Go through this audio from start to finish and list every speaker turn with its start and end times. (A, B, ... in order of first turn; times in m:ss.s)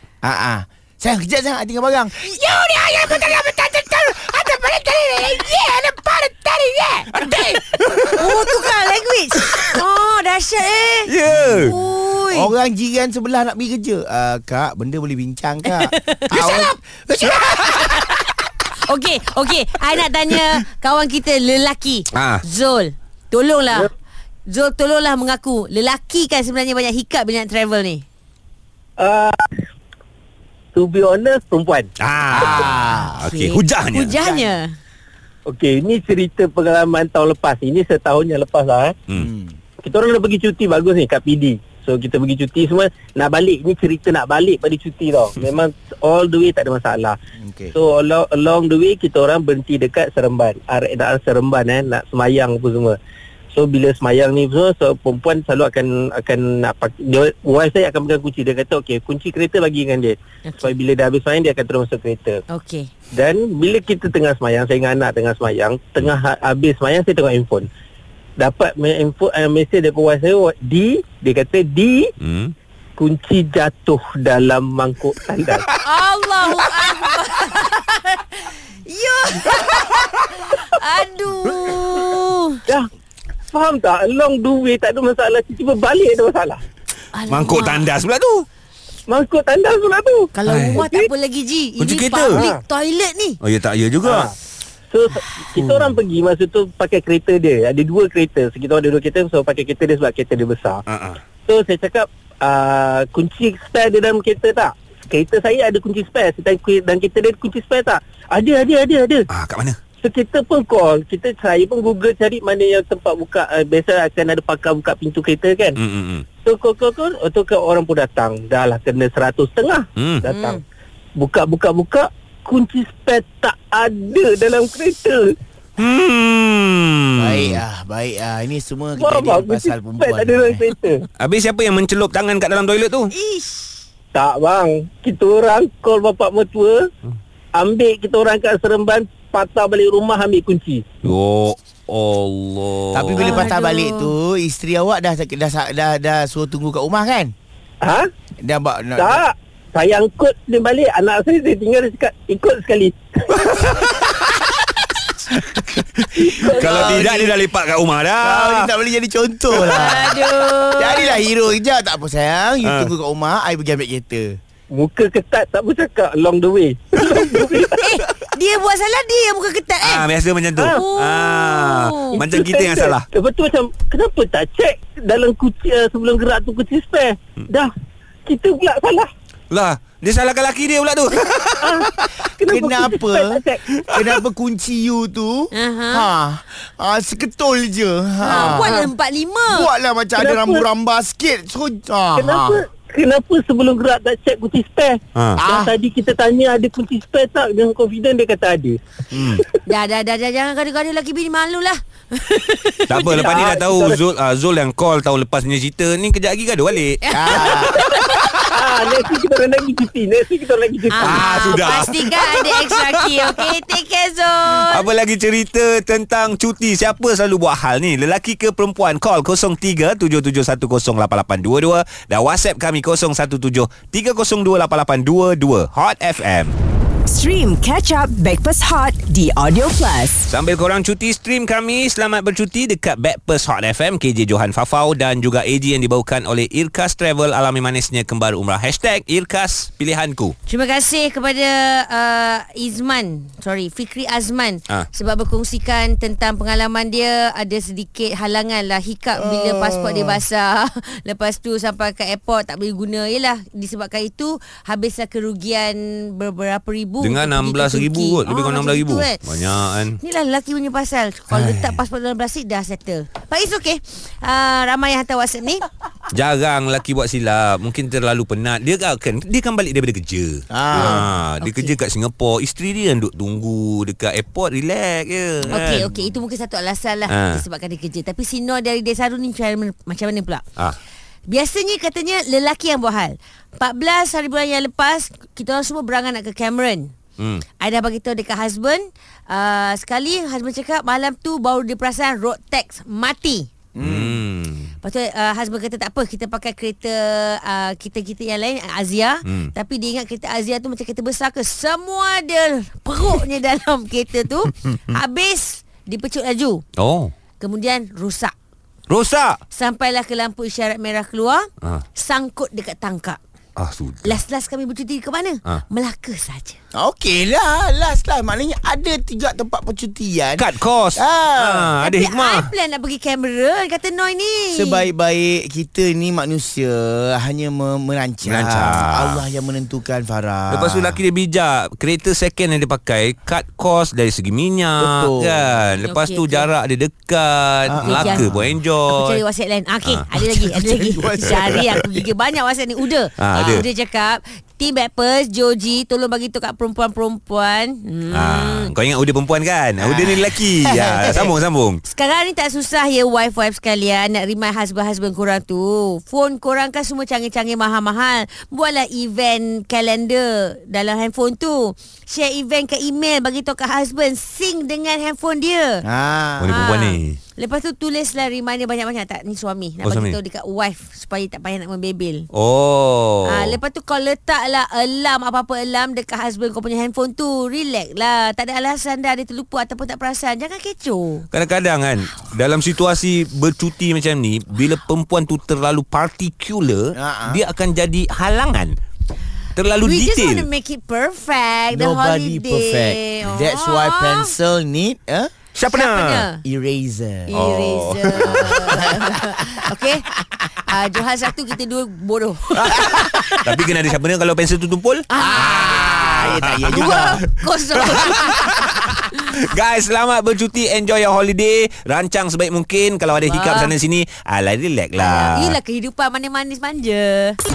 0:00.2-0:07.6 A
0:07.1-0:08.3 B
0:08.1-0:12.5 C
0:11.0-0:11.7 B
0:11.2-0:18.0 A
0:15.8-0:16.7 C
0:17.5-0:23.9 C
0:22.1-0:22.4 B
0:24.5-0:28.0 C
0:29.0-0:29.6 D
0:30.7-0:31.9 D
0:32.0-0:34.1 B
0:32.3-0:33.2 A
0:33.2-0:34.7 C
0:35.4-0:39.0 D
0:39.1-0:39.6 A
0:39.8-0:47.2 D
0:47.4-0:47.8 A
0:47.7-0:53.0 D
0:53.5-1:02.4 D
1:02.5-1:02.9 C
1:03.1-1:07.7 D
1:08.4-1:12.1 D
1:12.2-1:12.5 B
1:13.0-1:15.7 D
1:15.7-1:22.6 C
1:23.5-1:26.6 D
1:27.1-1:27.8 C
1:27.2-1:28.5 B
1:29.1-1:31.1 D
1:30.4-1:33.4 C
1:30.4-1:30.9 B
1:31.8-1:32.4 B
1:32.2-1:32.6 D
1:33.4-1:34.3 B
1:34.0-1:34.3 D
1:34.9-1:40.8 D
1:40.8-1:41.2 B
1:41.4-1:49.2 D
1:49.3-1:49.8 B
1:50.0-1:55.8 D
1:55.8-1:56.2 B
1:56.4-2:00.6 D
2:00.0-2:00.2 B
2:00.2-2:00.6 C
2:01.2-2:05.3 D
2:05.8-2:07.6 B
2:07.2-2:10.7 A
2:09.0-2:11.0 D
2:11.2-2:13.1 B
2:13.2-2:13.8 C
2:14.1-2:16.9 D
2:17.5-2:20.8 D
2:21.0-2:23.5 B
2:22.9-2:27.3 A
2:23.2-2:24.1 C
2:27.8-2:28.1 D
2:28.4-2:29.2 A
2:29.0-2:33.5 D
2:33.6-2:34.0 B
2:33.6-2:34.2 A
2:35.3-2:37.4 A
2:36.3-2:37.1 D
2:36.4-2:38.7 B
2:38.2-2:44.4 A
2:39.6-2:41.2 C
2:42.6-2:42.9 B
2:44.7-2:47.8 D
2:47.8-2:50.1 C
2:49.8-2:53.0 B
2:50.6-2:50.8 D
2:50.7-2:52.2 C
2:52.1-2:57.7 D
2:58.2-2:59.1 D
2:59.5-3:02.1 B
3:01.6-3:03.6 D
3:02.5-3:08.9 A
3:05.5-3:06.1 C
3:08.2-3:09.7 C
3:09.5-3:12.6 A
3:10.2-3:10.6 D
3:12.2-3:18.8 D
3:15.4-3:15.7 A
3:19.1-3:19.4 B
3:19.7-3:23.0 C
3:22.9-3:28.2 B
3:22.9-3:24.0 D
3:27.1-3:27.4 C
3:27.1-3:27.8 A
3:27.5-3:31.4 D
3:30.9-3:34.9 C
3:31.0-3:33.4 B
3:34.7-3:46.6 B
3:47.0-3:50.3 E
3:50.2-4:00.4 B
4:00.5-4:19.4 C
4:09.2-4:10.2 A
4:17.0-4:20.0 B
4:20.0-4:25.6 C
4:21.3-4:21.8 B
4:26.1-4:35.8 B
4:30.5-4:31.1 A
4:30.7-4:31.7 C
4:35.5-4:36.2 A
4:35.5-4:40.4 C
4:37.1-4:37.4 B
4:41.3-4:46.9 C
4:47.2-4:47.4 B
4:47.6-4:53.5 C
4:53.7-4:54.2 A
4:53.8-4:54.7 B
4:54.8-5:06.6 C
4:59.2-4:59.5 B
5:06.8-5:07.1 B
5:07.4-5:08.3 C
5:08.9-5:09.4 B
5:09.5-5:13.2 C
5:13.6-5:14.2 B
5:14.0-5:16.6 C
5:16.7-5:21.7 A
5:20.4-5:22.5 B
5:21.8-5:24.8 C
5:24.5-5:31.0 A
5:28.2-5:29.2 B
5:30.5-5:39.2 B
5:34.8-5:35.5 A
5:35.8-5:36.5 C
5:37.7-5:38.6 A
5:37.8-5:38.3 C
5:38.9-5:48.7 C
5:39.8-5:40.5 B
5:40.6-5:42.0 A
5:43.2-5:43.6 B
5:43.3-5:43.6 A
5:48.1-5:51.8 B
5:49.8-5:51.3 A
5:50.6-5:51.1 C
5:51.9-6:05.8 C
6:05.8-6:06.6 A
6:06.4-6:07.2 B
6:06.5-6:12.3 C
6:09.8-6:10.2 B
6:12.3-6:13.6 B
6:13.2-6:21.2 C
6:21.3-6:28.8 B
6:26.9-6:27.4 A
6:29.5-6:30.4 B
6:29.8-6:34.3 C
6:31.7-6:35.3 A
6:35.6-6:36.3 B
6:35.7-6:36.4 C
6:36.4-6:37.4 A
6:37.3-6:40.1 C
6:37.3-6:38.8 B
6:38.1-6:39.7 A
6:40.6-6:43.5 C
6:42.5-6:45.0 B
6:42.7-6:43.2 A
6:45.1-6:48.4 C
6:45.2-6:47.2 A
6:45.8-6:55.6 B
6:53.2-6:53.7 C
6:55.0-6:57.4 C